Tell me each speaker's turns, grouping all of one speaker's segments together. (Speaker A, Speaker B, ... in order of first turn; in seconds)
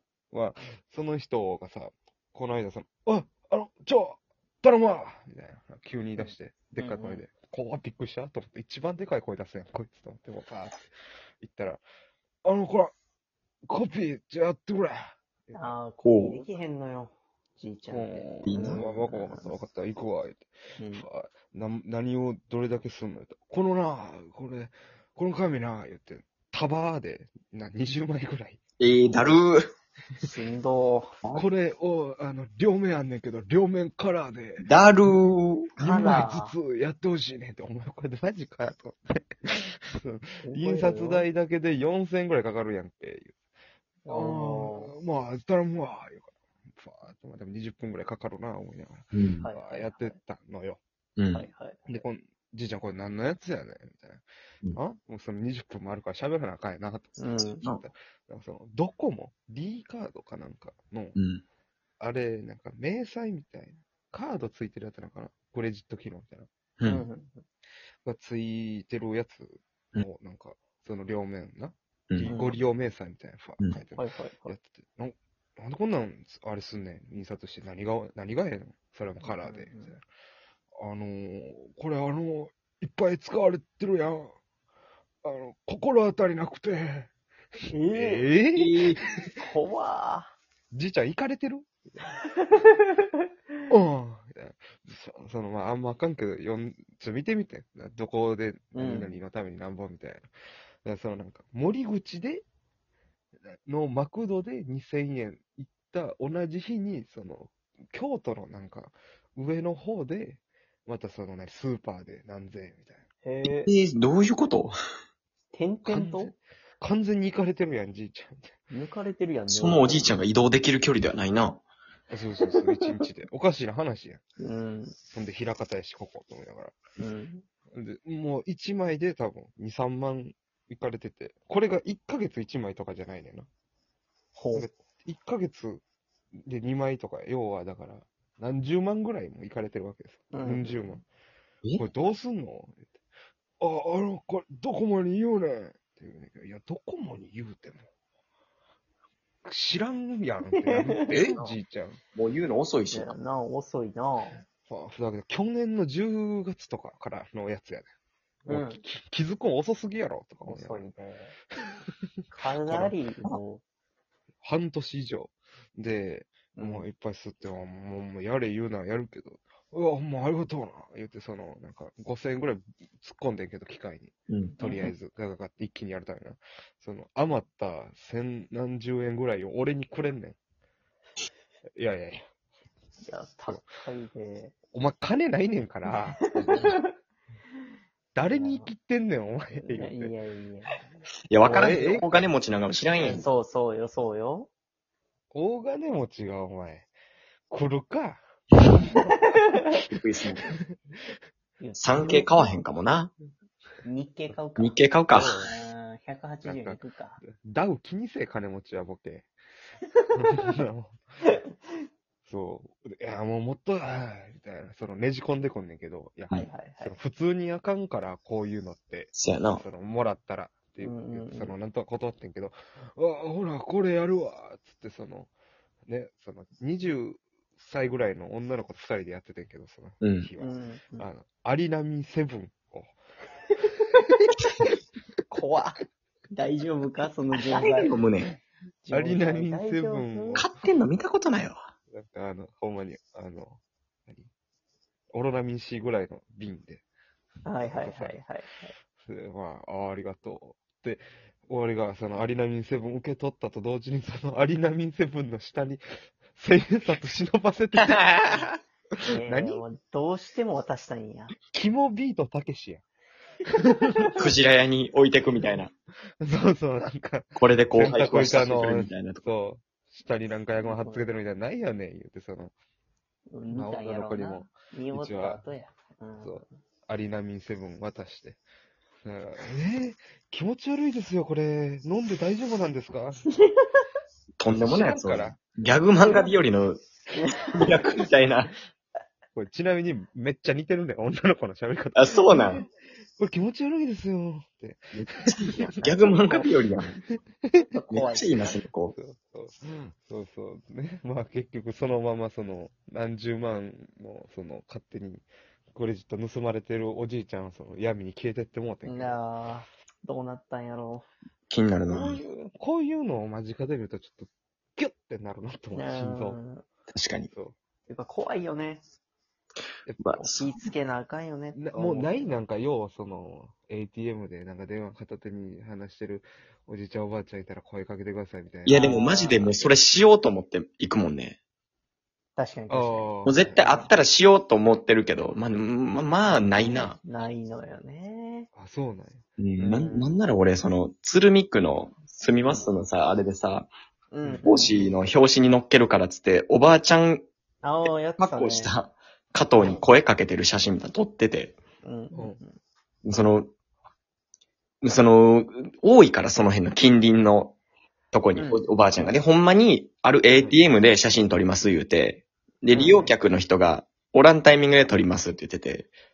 Speaker A: 0.3-10.8, 11.4-11.8, 12.4-12.9, 13.7-15.7, 17.9-28.6, 31.3-34.7, 35.8-43.3, 44.1-50.8, 51.9-54.2, 54.8-61.2, 62.0-66.5, 68.0-80.0, 80.8-84.3, 85.2-87.1, 87.9-89.2, 90.7-92.0, 93.7-100.3, 100.8-102.5, 103.7-113.1, 115.8-118.5, 122.1-124.2, 125.1-126.8, 127.7-133.5, 134.6-135.8, 136.5-141.1, 141.7-142.9, 143.6-147.9, 149.4-152.0, 154.7-157.9, 158.5-160.9, 162.7-162.9, 164.4-180.4, 181.8-182.2, 184.7-186.7, 188.2-190.1, 191.4-192.2, 195.3-196.9, 197.5-198.2, 205.1-205.5, 206.4-209.3, 210.2-211.0, 212.3-225.3, 225.9-232.9, 238.9-240.5, 241.9-244.3, 245.1-246.8, 247.6-248.2, 249.0-255.8, 256.4-258.5, 259.0-259.6, 261.5-262.8, 263.5-264.2, 266.2-272.5, 273.5-275.4, 276.2-278.4, 279.0-283.2, 284.5-285.4, 289.4-292.2, 293.2-296.4, 297.1-297.6, 298.9-309.2, 311.9-316.4, 317.3-317.6, 319.9-320.3, 321.5-328.8, 332.7-333.6, 338.6-339.2, 344.2-344.5
Speaker B: 6.2-7.2, 15.5-19.5, 20.8-21.1, 30.2-31.1, 35.8-36.5, 40.4-41.3, 44.0-44.9, 49.4-50.2, 51.3-51.9, 57.2-57.6, 66.8-67.4, 72.2-72.6, 74.0-74.5, 79.2-79.9, 87.7-88.3, 89.4-90.3, 92.3-93.0, 98.8-99.1, 113.2-113.7, 115.5-116.3, 118.7-120.2, 122.5-122.9, 124.4-125.0, 127.0-127.5, 134.3-134.7, 140.3-141.0, 150.7-151.2, 152.9-154.4, 158.5-158.8, 160.4-161.4, 162.3-163.6, 166.6-166.9, 174.6-174.9, 183.0-184.6, 185.9-186.9, 188.3-188.7, 189.6-190.9, 193.0-194.5, 198.9-199.6, 201.6-202.3, 203.8-207.2, 216.3-217.0, 220.8-221.6, 230.4-231.1, 235.3-235.8, 236.3-238.0, 238.8-240.5, 247.4-248.7, 259.1-261.3, 270.6-271.1, 273.3-276.5, 283.3-283.8, 286.0-286.3, 287.1-287.8, 297.7-298.6, 308.9-311.1, 315.8-316.6, 317.9-318.8, 320.2-322.4, 328.7-329.6, 332.4-333.9, 336.2-338.5, 339.6-340.1, 344.1-344.7, 347.6-348.7, 351.8-352.6, 358.4-358.7, 362.7-363.1
Speaker C: 16.0-16.4, 18.4-18.8, 28.8-29.6, 34.6-36.2, 49.1-49.5, 51.2-51.5, 61.2-61.4, 66.8-67.1, 72.1-72.3, 88.5-89.0, 113.7-114.7, 119.5-121.6, 151.1-151.6, 152.1-153.1, 174.3-174.6, 191.3-193.3, 199.9-200.5, 201.8-203.1, 204.6-205.4, 219.1-219.6, 230.0-230.3, 237.4-238.4, 240.3-241.6, 257.8-258.5, 264.1-265.7, 267.4-269.3, 284.4-286.8, 287.5-288.5, 292.0-292.6, 294.9-297.0, 297.9-299.0, 311.5-312.2, 316.9-317.3, 320.0-320.5, 328.6-331.4, 333.2-337.0, 339.4-343.7, 344.4-347.2, 348.2-351.6, 353.0-353.5, 354.8-357.6, 358.1-365.9